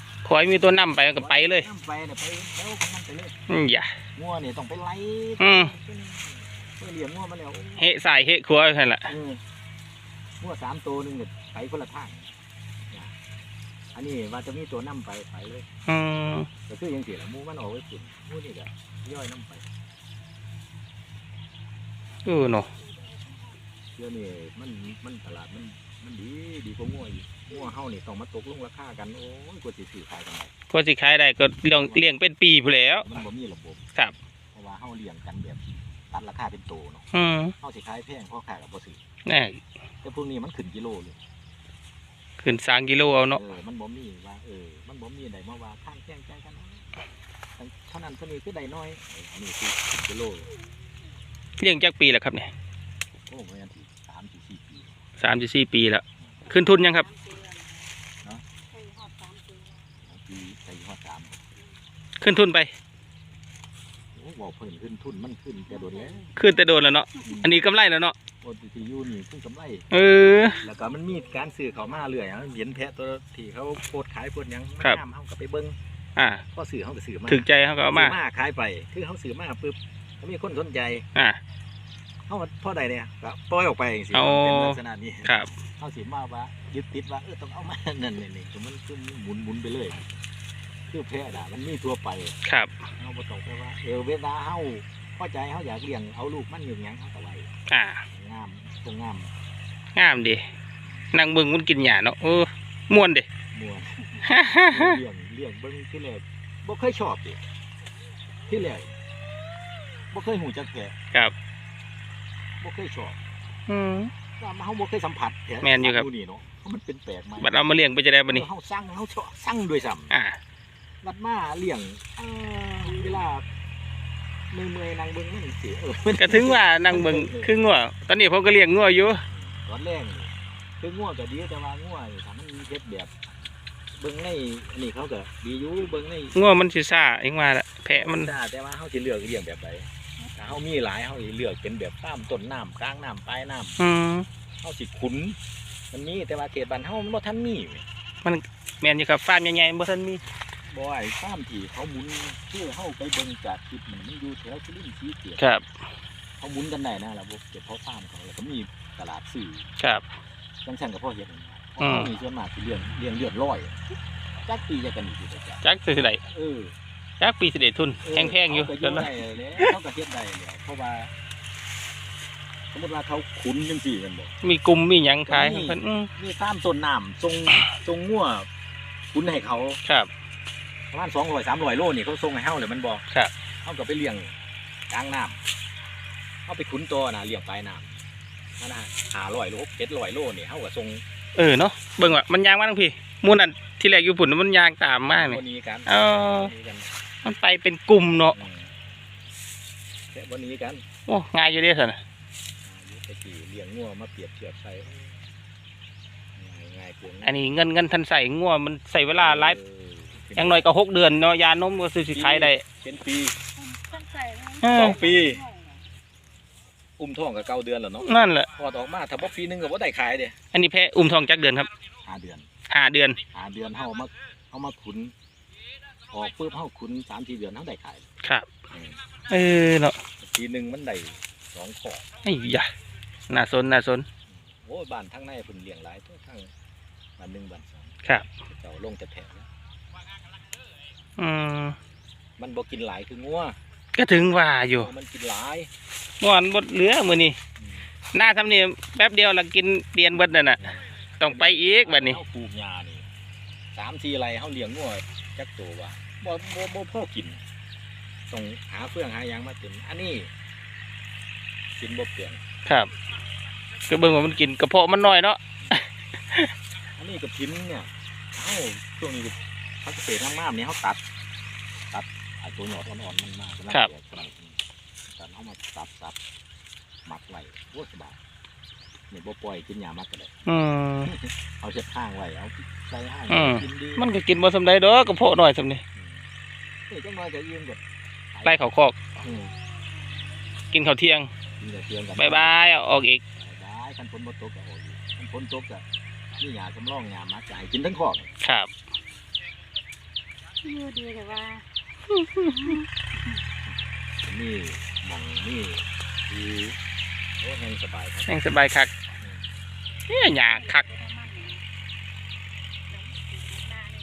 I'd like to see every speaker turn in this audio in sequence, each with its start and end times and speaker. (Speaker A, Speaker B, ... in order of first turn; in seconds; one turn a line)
Speaker A: 0.2-1.7
Speaker B: 1.1-3.3
Speaker A: 3.5-3.9
Speaker B: 4.1-7.9
Speaker A: 5.4-5.7
Speaker A: 7.8-9.1
Speaker B: 9.1-9.4
Speaker B: 10.4-12.3
Speaker B: 13.9-15.7
Speaker A: 15.9-16.5
Speaker B: 16.7-19.6
Speaker A: 22.2-22.7
Speaker B: 23.9-30.5
Speaker A: 30.7-33.0
Speaker B: 31.7-32.1
Speaker B: 33.0-33.8
Speaker B: 34.5-37.0
Speaker A: 37.1-37.5
Speaker B: 37.6-39.0
Speaker A: 39.2-39.6
Speaker B: 40.0-41.2
Speaker A: 42.4-43.4
Speaker B: 43.3-46.9
Speaker B: 47.6-50.5
Speaker A: 51.6-52.5
Speaker B: 53.3-54.9
Speaker A: 55.2-57.1
Speaker C: 57.3-57.5
Speaker C: 58.8-59.6
Speaker B: 60.0-61.4
Speaker A: 62.2-62.7
Speaker B: 64.1-66.3
Speaker A: 66.3-68.1
Speaker B: 67.2-67.5
Speaker B: 68.4-69.8
Speaker A: 69.9-70.6
Speaker B: 70.6-75.8
Speaker A: 76.2-76.4
Speaker B: 76.5-81.0
Speaker A: 77.3-78.1
Speaker A: 81.1-81.4
Speaker B: 82.3-90.1
Speaker A: 84.1-85.5
Speaker B: 90.9-92.3
Speaker A: 92.4-92.7
Speaker B: 93.0-97.5
Speaker A: 97.7-98.0
Speaker B: 98.1-99.3
Speaker A: 99.9-100.5
Speaker A: 101.1-103.3
Speaker B: 103.5-107.4
Speaker A: 104.2-105.0
Speaker B: 108.5-109.0
Speaker B: 110.1-110.9
Speaker B: 112.6-113.2
Speaker A: 113.7-114.1
Speaker B: 114.4-117.7
Speaker A: 115.6-116.0
Speaker A: 117.4-118.5
Speaker B: 118.3-120.2
Speaker A: 120.1-120.4
Speaker B: 121.0-123.4
Speaker B: 124.5-127.5
Speaker A: 126.1-129.2
Speaker B: 129.3-133.1
Speaker B: 133.9-136.4
Speaker A: 136.3-138.3
Speaker B: 137.9-143.8
Speaker A: 143.8-144.3
Speaker B: 144.6-145.4
Speaker B: 145.9-147.8
Speaker A: 148.2-150.2
Speaker B: 150.6-155.5
Speaker A: 155.4-155.6
Speaker B: 156.4-159.7
Speaker A: 159.8-160.1
Speaker B: 160.6-163.8
Speaker A: 161.8-162.1
Speaker B: 164.4-165.6
Speaker A: 165.6-166.2
Speaker B: 166.3-166.7
Speaker A: 167.2-169.7
Speaker B: 168.0-171.1
Speaker B: 172.7-174.3
Speaker A: 174.4-176.1
Speaker B: 175.3-178.5
Speaker B: 179.1-179.8
Speaker B: 180.9-183.0
Speaker B: 183.6-184.3
Speaker B: 184.9-185.4
Speaker B: 186.4-187.9
Speaker B: 188.6-191.0
Speaker A: 191.3-196.5
Speaker B: 195.1-196.9
Speaker A: 197.2-198.3
Speaker B: 198.3-198.7
Speaker B: 200.1-200.8
Speaker A: 201.1-202.0
Speaker B: 202.6-205.2
Speaker B: 206.3-207.4
Speaker A: 207.2-209.6
Speaker B: 209.1-210.7
Speaker A: 210.4-212.6
Speaker B: 212.1-213.3
Speaker C: 213.9-214.6
Speaker A: 214.6-215.0
Speaker B: 214.6-215.4
Speaker B: 217.0-220.3
Speaker A: 218.0-218.5
Speaker A: 220.5-221.7
Speaker B: 222.0-222.5
Speaker A: 222.7-223.2
Speaker B: 223.3-225.1
Speaker B: 226.1-228.0
Speaker B: 228.7-229.0
Speaker A: 229.3-230.0
Speaker B: 230.2-232.1
Speaker A: 232.2-232.7
Speaker A: 233.3-234.1
Speaker B: 234.3-236.5
Speaker B: 237.2-239.5
Speaker A: 241.2-241.8
Speaker B: 242.4-243.6
Speaker A: 243.9-244.9
Speaker B: 244.8-245.7
Speaker A: 246.2-247.4
Speaker A: 248.1-252.2
Speaker B: 250.6-253.1
Speaker B: 253.7-257.4
Speaker B: 258.3-260.3
Speaker B: 261.8-262.4
Speaker A: 262.6-262.9
Speaker A: 263.9-266.5
Speaker B: 266.9-271.0
Speaker B: 271.9-274.6
Speaker B: 275.1-276.1
Speaker B: 277.1-278.2
Speaker B: 279.1-280.3
Speaker A: 280.4-281.1
Speaker B: 281.1-284.1
Speaker A: 283.3-285.8
Speaker B: 285.9-286.2
Speaker B: 286.9-287.8
Speaker B: 288.3-288.6
Speaker A: 288.4-288.9
Speaker B: 289.2-289.5
Speaker A: 290.7-291.3
Speaker B: 291.6-292.6
Speaker A: 292.2-293.2
Speaker B: 293.4-295.8
Speaker B: 296.4-298.3
Speaker A: 298.4-298.7
Speaker C: 300.7-301.5
Speaker A: 302.2-302.8
Speaker B: 304.2-306.8
Speaker B: 307.4-308.3
Speaker A: 308.2-308.9
Speaker A: 310.1-310.9
Speaker C: 311.0-311.6
Speaker C: 313.6-313.9